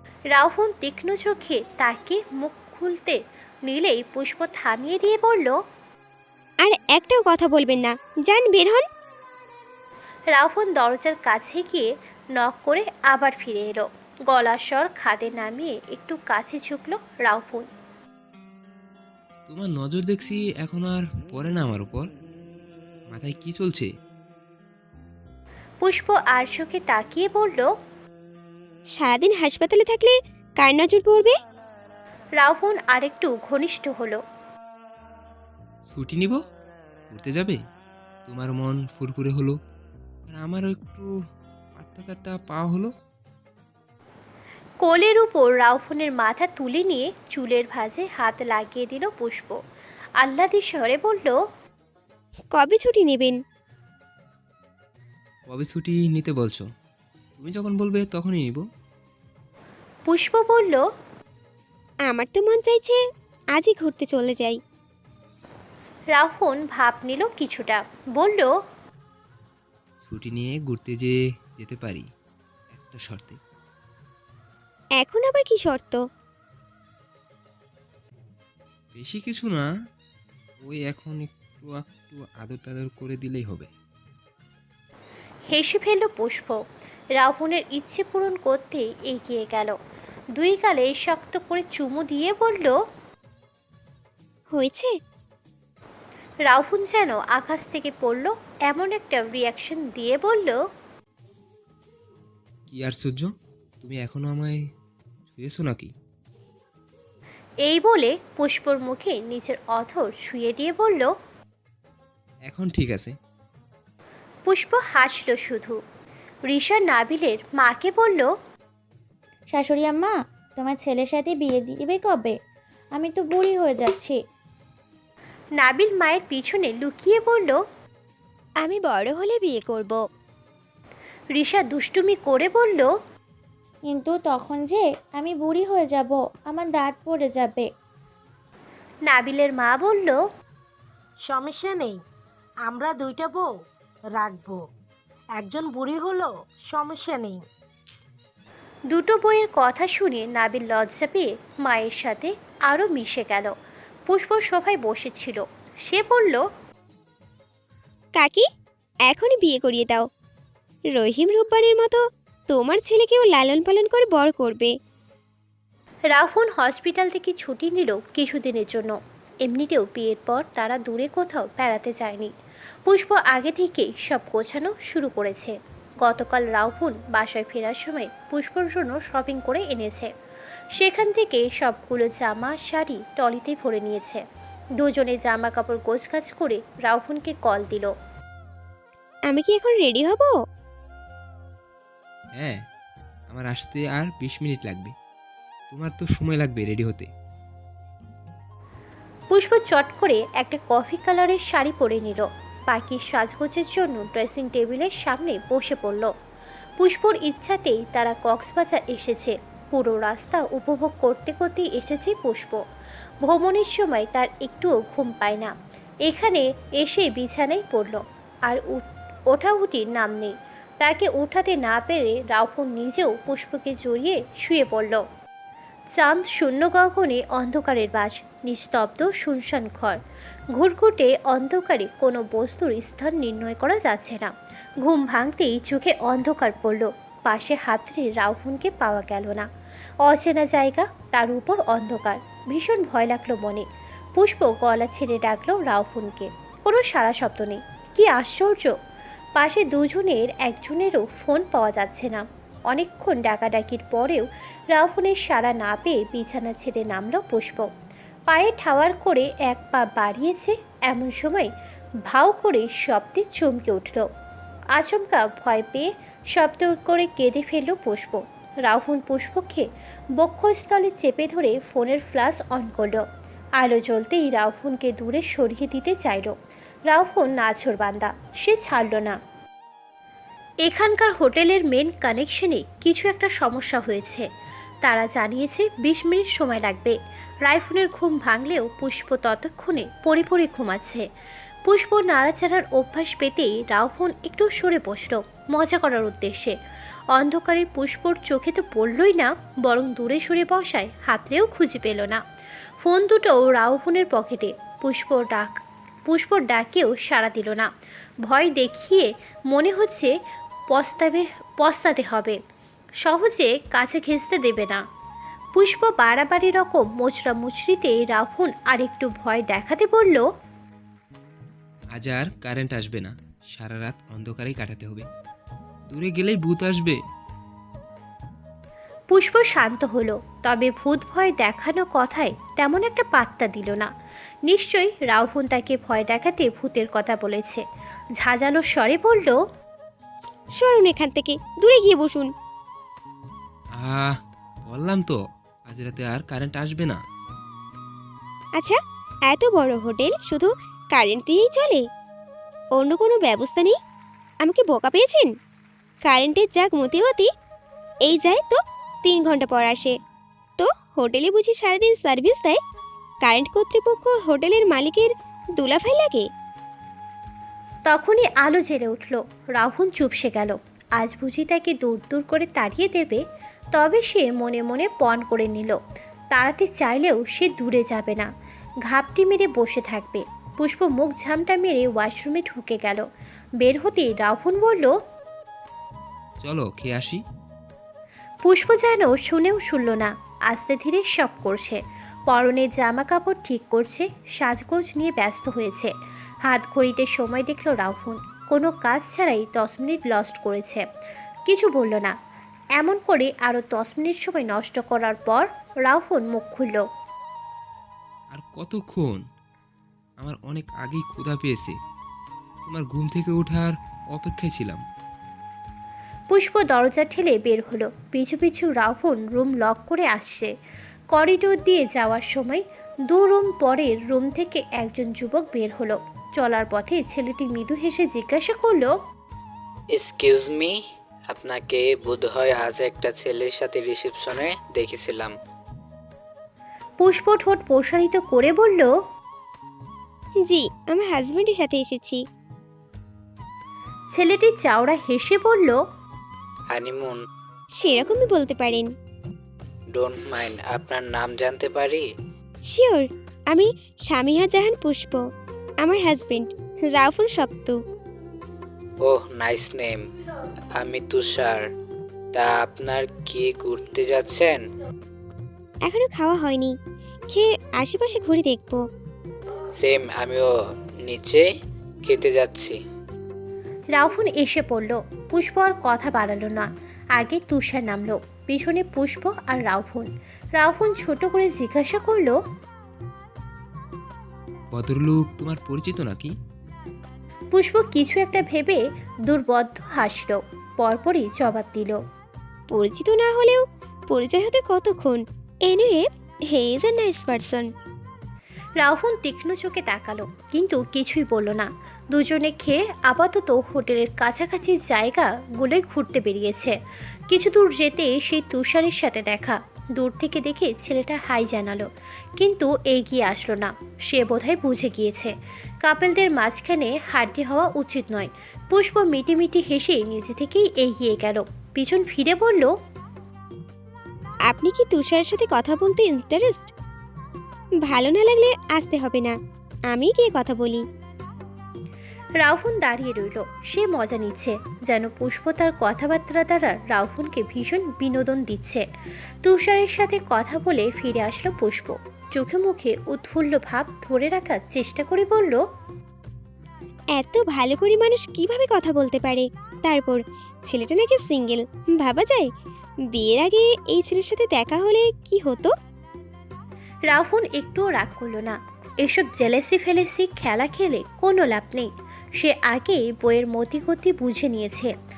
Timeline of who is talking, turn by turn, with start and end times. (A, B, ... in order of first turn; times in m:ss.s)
0:00.3-0:05.6 A
0:06.6-0:08.8 B
0:10.3-0:11.8 A
0:12.4-0:17.7 A
0:19.5-0:22.1 C
0:23.1-0:23.9 C
0:25.8-0:27.7 A
0:29.0-0:31.3 B
0:32.4-0:34.2 A
0:35.9-0:36.4 C
0:37.1-0:37.6 C
0:38.2-0:39.6 C
0:40.3-0:41.1 C
0:41.7-0:42.9 C
0:44.8-0:49.6 A
0:50.2-0:51.4 A
0:52.5-0:53.4 B
0:55.5-0:56.6 C
0:57.4-0:58.6 C
1:00.1-1:00.8 A
1:02.1-1:03.0 B
1:03.6-1:04.6 B
1:06.1-1:08.5 A
1:10.0-1:12.0 C
1:12.7-1:13.4 C
1:15.0-1:16.0 B
1:18.9-1:19.6 C
1:20.6-1:23.7 C
1:25.5-1:26.6 A
1:27.2-1:29.7 A
1:30.4-1:32.7 A
1:34.5-1:34.9 B
1:36.5-1:40.6 A
1:42.7-1:43.3 C
1:43.8-1:44.6 C
1:45.3-1:45.9 C
1:47.6-1:51.1 A
1:52.5-1:53.1 C
1:54.5-1:55.8 A
1:56.5-1:58.3 A
1:59.5-2:02.3 D
2:03.0-2:04.2 D
2:05.6-2:07.6 A
2:08.6-2:10.0 B
2:11.3-2:12.9 A
2:13.9-2:17.6 D
2:19.1-2:20.2 A
2:21.2-2:22.0 E
2:22.7-2:23.5 E
2:24.1-2:24.6 E
2:25.4-2:27.4 E
2:28.9-2:33.5 A
2:34.1-2:36.4 A
2:38.2-2:38.4 B
2:39.1-2:40.0 B
2:40.9-2:44.7 B
2:46.1-2:48.9 A
2:49.4-2:52.3 A
2:52.9-3:00.1 A
3:00.8-3:04.2 A
3:04.8-3:07.9 A
3:09.3-3:10.3 B
3:13.3-3:14.9 C
3:15.7-3:17.1 C
3:19.3-3:26.1 A
3:26.8-3:32.6 A
3:33.2-3:35.5 A
3:36.0-3:45.0 A
3:46.0-3:50.0 A
3:50.5-3:54.3 A
3:54.8-3:59.5 A
4:00.0-4:03.6 A
4:04.2-4:08.7 A
4:09.4-4:17.7 A
4:18.3-4:21.5 A
4:22.1-4:24.0 A
4:24.8-4:29.7 A
4:30.2-4:33.0 A
4:33.6-4:36.3 A
4:36.9-4:39.2 A
4:40.6-4:44.3 A
4:44.8-4:51.0 A
4:51.7-4:56.6 A
4:57.1-5:02.2 A
5:02.8-5:07.7 A
5:08.3-5:10.1 A
5:10.7-5:12.4 A
5:13.0-5:14.8 A
5:15.6-5:20.2 A
5:22.0-5:25.0 C
5:25.9-5:27.0 C
5:29.1-5:33.9 A
5:34.5-5:37.6 A
5:38.2-5:39.4 A
5:40.6-5:42.3 B
5:43.8-5:44.1 C
5:44.6-5:47.0 C
5:49.3-5:51.8 B
5:52.8-5:53.8 B
5:54.4-5:55.3 B
5:56.1-5:57.3 B
5:58.0-5:59.9 B
6:00.6-6:02.6 B
6:03.2-6:06.3 B
6:07.9-6:13.2 A
6:13.8-6:15.8 A
6:16.3-6:18.3 A
6:18.9-6:23.0 A
6:23.6-6:24.9 A
6:26.4-6:27.2 C
6:28.4-6:35.9 A
6:36.4-6:40.8 A
6:41.5-6:42.1 A
6:42.8-6:46.8 A
6:48.3-6:49.2 C
6:50.2-6:51.7 C
6:52.6-6:54.8 C
6:56.3-7:00.5 A
7:01.1-7:08.9 A
7:10.0-7:10.8 F
7:11.3-7:15.3 F
7:17.0-7:18.9 A
7:20.4-7:22.2 B
7:24.1-7:25.8 A
7:26.7-7:27.2 F
7:27.8-7:28.9 B
7:30.0-7:32.0 F
7:32.7-7:35.2 B
7:35.8-7:37.8 B
7:39.0-7:40.0 F
7:40.8-7:41.6 F
7:42.3-7:44.6 F
7:45.9-7:46.7 B
7:47.3-7:48.8 B
7:49.8-7:50.5 F
7:51.1-7:51.4 F
7:52.0-7:52.8 F
7:54.0-7:56.6 A
7:57.2-8:02.4 A
8:04.7-8:06.3 C
8:07.5-8:12.0 A
8:12.7-8:17.7 B
8:18.8-8:26.8 A
8:27.3-8:31.9 A
8:32.4-8:35.3 A
8:35.8-8:42.7 A
8:44.5-8:46.7 B
8:47.8-8:49.4 B
8:49.9-8:50.8 B
8:52.4-8:58.8 A
8:59.4-9:05.6 A
9:07.2-9:12.5 B
9:13.1-9:15.7 B
9:17.1-9:24.9 A